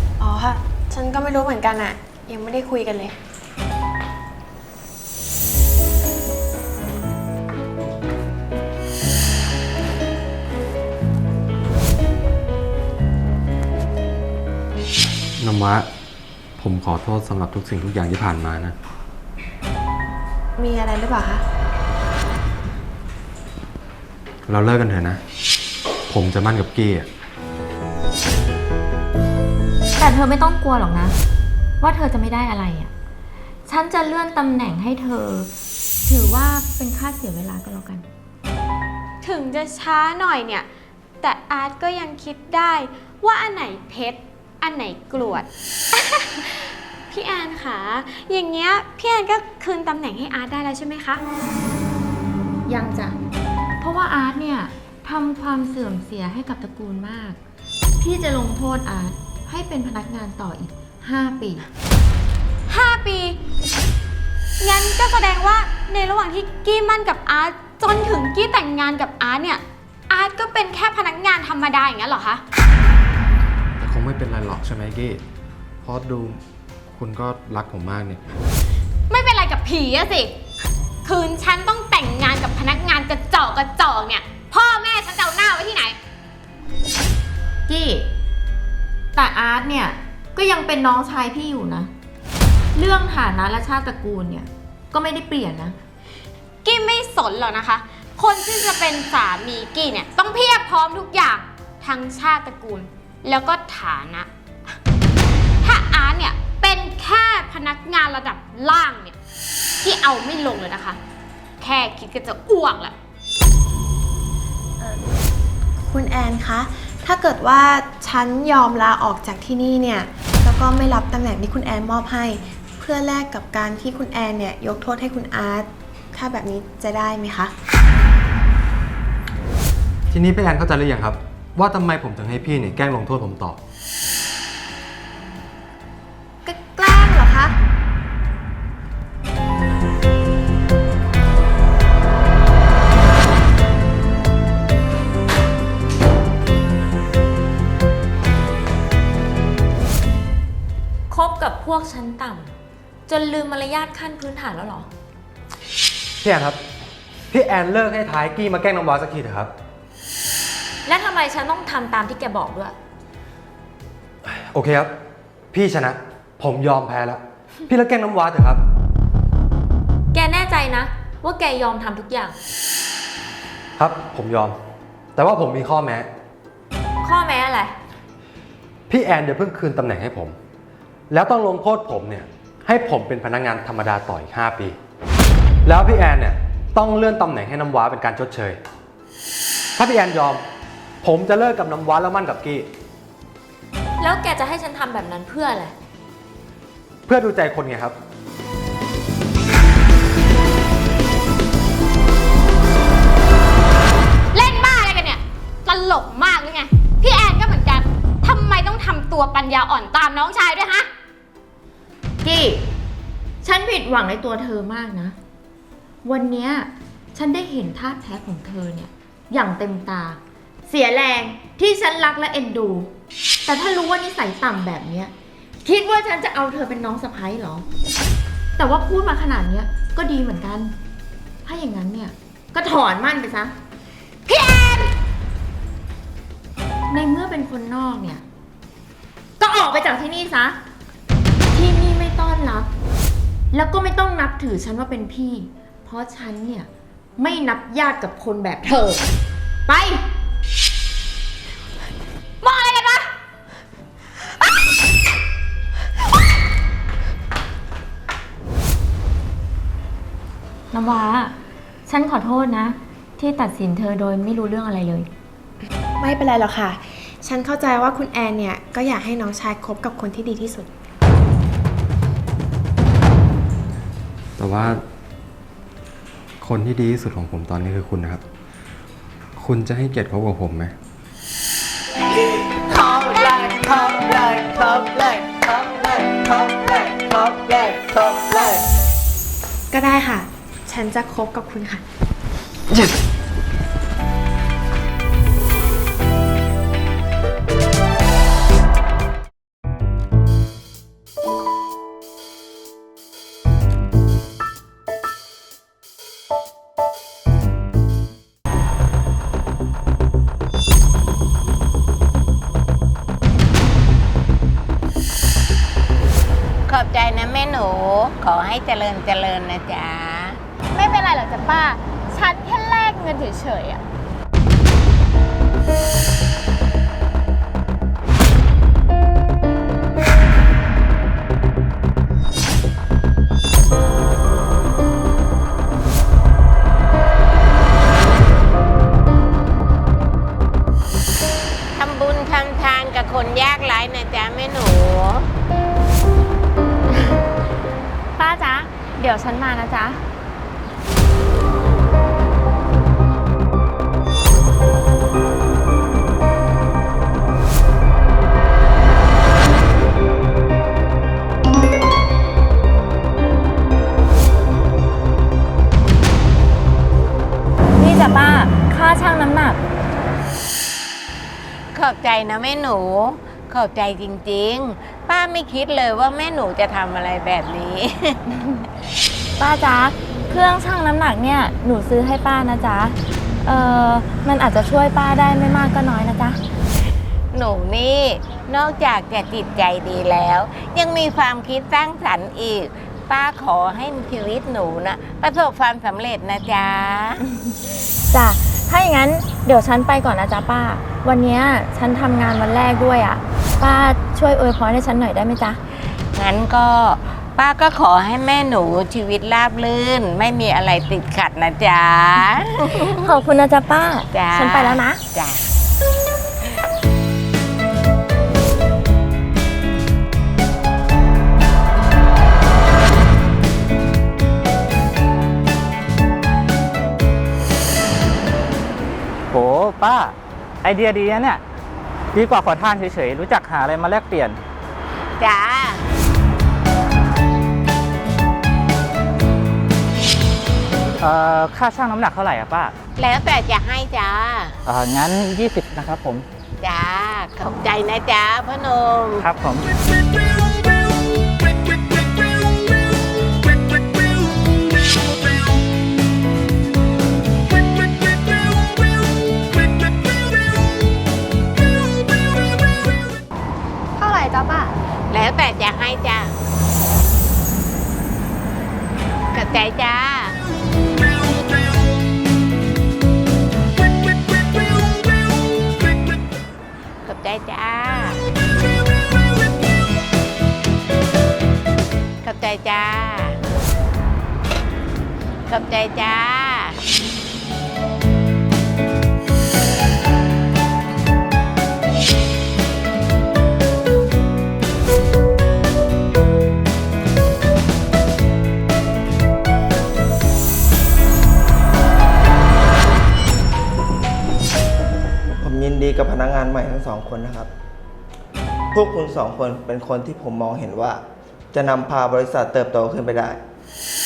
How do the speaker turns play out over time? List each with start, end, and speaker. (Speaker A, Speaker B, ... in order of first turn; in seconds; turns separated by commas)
Speaker A: 0.2-3.2, Speaker B: 15.4-15.9, Speaker B: 16.6-18.8, Speaker A: 20.6-21.4, Speaker B: 24.5-25.2, Speaker B: 26.1-27.1, Speaker C: 30.0-31.2, Speaker C: 31.8-32.9, Speaker C: 33.7-35.5, Speaker C: 36.0-38.1, Speaker D: 39.2-40.7, Speaker D: 41.2-51.2, Speaker C: 52.7-53.2, Speaker C: 53.8-57.4, Speaker C: 58.0-61.7, Speaker D: 62.7-63.4, Speaker D: 64.6-72.4, Speaker B: 73.8-75.2, Speaker B: 75.8-76.4, Speaker B: 76.9-78.2, Speaker D: 79.1-80.4, Speaker D: 81.0-86.0, Speaker C: 87.7-88.1, Speaker C: 89.2-91.9, Speaker C: 92.8-95.8, Speaker D: 96.6-104.8, Speaker D: 105.6-109.2, Speaker D: 109.8-111.0, Speaker D: 111.6-113.0, Speaker A: 114.8-115.1, Speaker A: 115.8-127.5, Speaker B: 130.1-133.6, Speaker A: 136.4-137.6, Speaker C: 151.1-152.5, Speaker C: 153.1-154.9, Speaker B: 156.2-156.6, Speaker B: 157.3-159.5, Speaker C: 160.9-162.8, Speaker B: 164.2-164.9, Speaker B: 165.5-168.6, Speaker C: 170.1-172.4, Speaker B: 173.8-174.6, Speaker B: 175.2-176.1, Speaker C: 177.0-177.8, Speaker B: 178.9-180.4, Speaker B: 181.1-184.8, Speaker B: 185.7-188.6, Speaker B: 189.8-190.4, Speaker B: 191.0-192.7, Speaker C: 194.0-195.8, Speaker B: 197.1-198.0, Speaker D: 204.3-210.9, Speaker C: 212.2-212.7, Speaker C: 213.4-215.2, Speaker C: 216.0-222.9, Speaker C: 223.5-225.1, Speaker C: 225.6-227.7, Speaker C: 228.6-230.8, Speaker C: 231.4-233.6, Speaker D: 234.3-234.9, Speaker C: 236.9-238.2, Speaker C: 239.4-240.6, Speaker C: 241.5-242.7, Speaker C: 243.5-249.1, Speaker C: 249.7-250.1, Speaker D: 252.4-253.1, Speaker C: 260.7-261.4, Speaker C: 261.9-265.1, Speaker A: 266.0-270.7, Speaker B: 274.4-274.8, Speaker B: 276.4-278.2, Speaker B: 279.4-280.7, Speaker E: 282.7-288.3, Speaker A: 289.7-291.8, Speaker F: 316.7-320.4, Speaker D: 320.7-323.8, Speaker F: 341.8-345.3, Speaker C: 348.2-350.0, Speaker C: 367.8-369.6, Speaker F: 371.7-378.2, Speaker C: 379.4-386.4, Speaker F: 387.3-397.2, Speaker C: 398.1-405.6, Speaker F: 406.2-413.1, Speaker C: 412.7-415.0, Speaker F: 414.1-415.4, Speaker G: 429.3-431.4, Speaker G: 432.1-434.4, Speaker F: 435.2-435.8, Speaker G: 441.0-442.8, Speaker F: 443.0-444.6, Speaker G: 444.7-446.3, Speaker F: 446.6-449.2, Speaker G: 449.2-449.7, Speaker D: 464.0-464.7, Speaker F: 465.1-466.3, Speaker F: 469.3-470.4, Speaker F: 477.1-478.2, Speaker F: 482.2-483.4, Speaker F: 485.5-486.8, Speaker H: 505.4-507.5, Speaker H: 508.7-511.0, Speaker H: 511.5-513.4